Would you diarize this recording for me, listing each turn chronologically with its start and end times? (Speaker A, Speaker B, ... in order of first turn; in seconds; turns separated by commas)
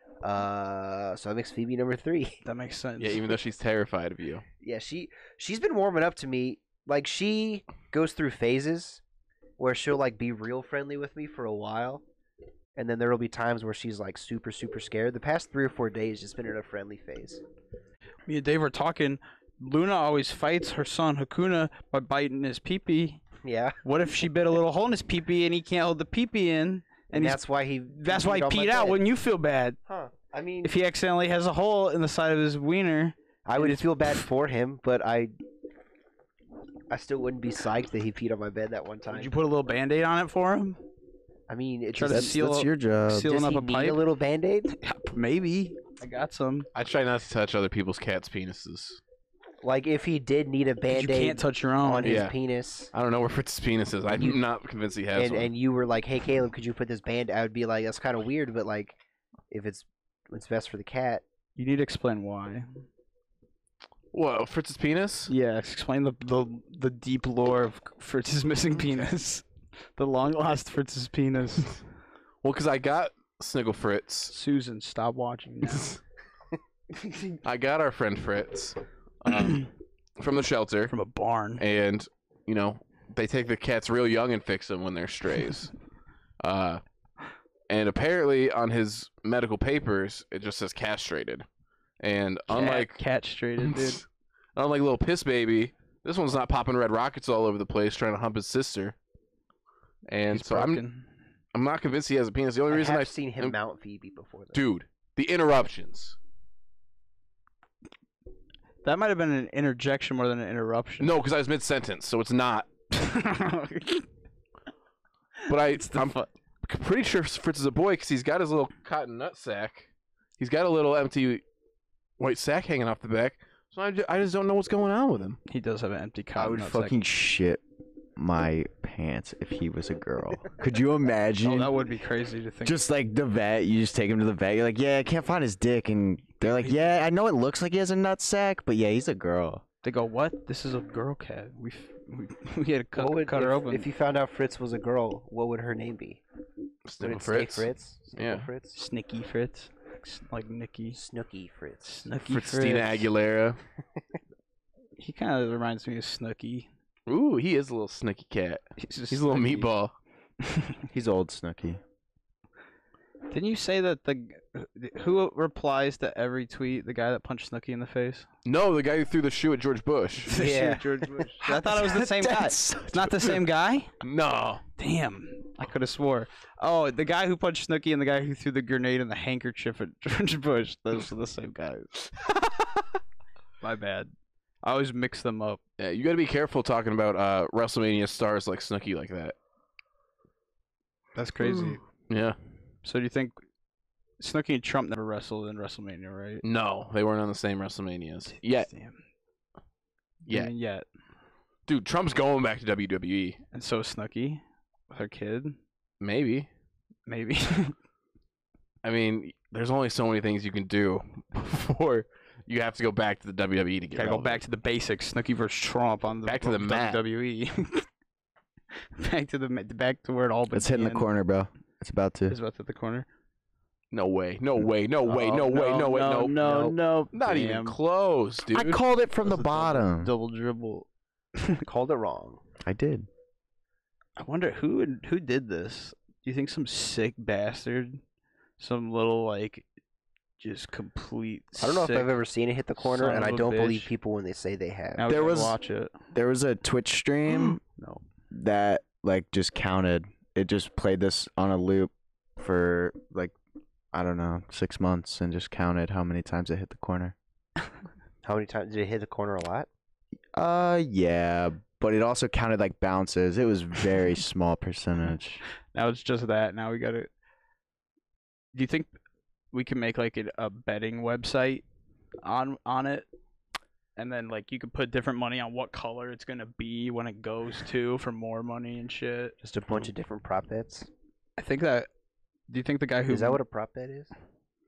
Speaker A: 0.2-2.4, Speaker B: 2.4-3.3, Speaker C: 3.0-4.4, Speaker A: 4.6-9.0, Speaker A: 9.6-12.0, Speaker A: 12.8-17.4, Speaker B: 18.3-23.2, Speaker A: 23.4-23.8, Speaker B: 23.8-29.8, Speaker A: 27.1-29.0, Speaker A: 29.9-30.8, Speaker B: 30.6-33.9, Speaker A: 33.5-35.4, Speaker A: 36.9-39.3, Speaker B: 39.1-40.8, Speaker A: 41.5-42.4, Speaker B: 41.9-44.0, Speaker D: 42.1-43.4, Speaker A: 43.2-44.7, Speaker B: 44.7-46.7, Speaker C: 46.8-49.0, Speaker A: 49.6-52.9, Speaker B: 50.9-52.2, Speaker C: 52.0-52.4, Speaker C: 52.9-55.5, Speaker A: 54.1-54.4, Speaker A: 55.1-59.0, Speaker A: 59.5-61.2, Speaker B: 61.6-62.7, Speaker C: 64.1-65.3, Speaker B: 65.3-69.5, Speaker C: 68.8-69.1, Speaker B: 70.0-71.8, Speaker C: 72.4-74.3, Speaker B: 74.3-76.0, Speaker C: 75.6-76.0, Speaker C: 77.4-79.7, Speaker B: 79.3-79.7, Speaker C: 80.2-80.9, Speaker B: 80.9-81.6, Speaker C: 81.6-85.7, Speaker C: 86.4-86.8, Speaker C: 87.7-91.5, Speaker C: 92.0-93.0, Speaker B: 92.5-94.0, Speaker C: 94.6-99.0, Speaker C: 100.1-100.8, Speaker B: 100.3-101.1, Speaker C: 101.5-103.6, Speaker A: 102.7-104.6, Speaker C: 104.5-106.2, Speaker B: 108.8-111.1, Speaker C: 111.0-112.7, Speaker B: 112.9-114.1, Speaker C: 115.5-121.4, Speaker B: 115.7-116.3, Speaker C: 122.2-125.4, Speaker B: 125.5-127.0, Speaker D: 126.4-127.6, Speaker D: 128.2-131.7, Speaker B: 131.4-132.8, Speaker D: 132.6-139.6, Speaker B: 136.5-136.9, Speaker B: 139.8-143.9, Speaker A: 142.9-146.2, Speaker C: 146.9-148.5, Speaker A: 147.0-148.8, Speaker B: 148.7-151.0, Speaker A: 150.9-152.1, Speaker B: 151.8-153.1, Speaker C: 152.3-153.6, Speaker B: 155.0-156.7, Speaker C: 157.1-159.9, Speaker B: 158.8-159.7, Speaker D: 160.9-161.8, Speaker B: 163.3-168.3, Speaker C: 168.4-170.3, Speaker B: 170.3-173.9, Speaker A: 170.3-171.4, Speaker D: 171.4-173.3, Speaker C: 174.0-174.6, Speaker B: 174.8-182.1, Speaker B: 183.6-184.1, Speaker B: 184.6-185.6, Speaker C: 185.8-189.3, Speaker B: 191.2-191.8, Speaker C: 192.1-192.4, Speaker B: 192.8-193.4, Speaker B: 194.2-196.4, Speaker C: 196.4-198.7, Speaker B: 198.3-199.0, Speaker C: 200.3-200.5, Speaker B: 200.3-200.9, Speaker C: 201.7-203.4, Speaker B: 203.5-205.6, Speaker C: 206.0-206.5, Speaker B: 207.1-207.8, Speaker C: 208.8-214.4, Speaker B: 213.9-217.9, Speaker C: 216.2-217.0, Speaker B: 219.0-221.1, Speaker D: 220.5-222.4, Speaker B: 222.3-223.1, Speaker C: 223.9-226.4, Speaker B: 225.1-227.8, Speaker A: 226.4-226.8, Speaker C: 227.1-228.8, Speaker D: 228.5-230.1, Speaker B: 229.2-230.9, Speaker A: 231.7-232.4, Speaker D: 232.6-233.1, Speaker B: 234.2-238.0, Speaker B: 238.6-239.7, Speaker B: 240.4-242.2, Speaker A: 241.6-245.1, Speaker B: 242.8-243.9, Speaker B: 245.0-245.9, Speaker D: 245.1-245.6, Speaker D: 246.1-247.6, Speaker B: 247.3-248.0, Speaker D: 248.3-253.3, Speaker D: 253.9-257.2, Speaker A: 258.2-259.7, Speaker D: 260.3-265.4, Speaker B: 265.7-267.1, Speaker B: 268.5-268.9, Speaker B: 269.5-271.6, Speaker B: 272.2-273.1, Speaker B: 274.0-279.9, Speaker A: 279.4-280.9, Speaker B: 281.4-281.9, Speaker B: 282.5-283.4, Speaker A: 283.1-284.1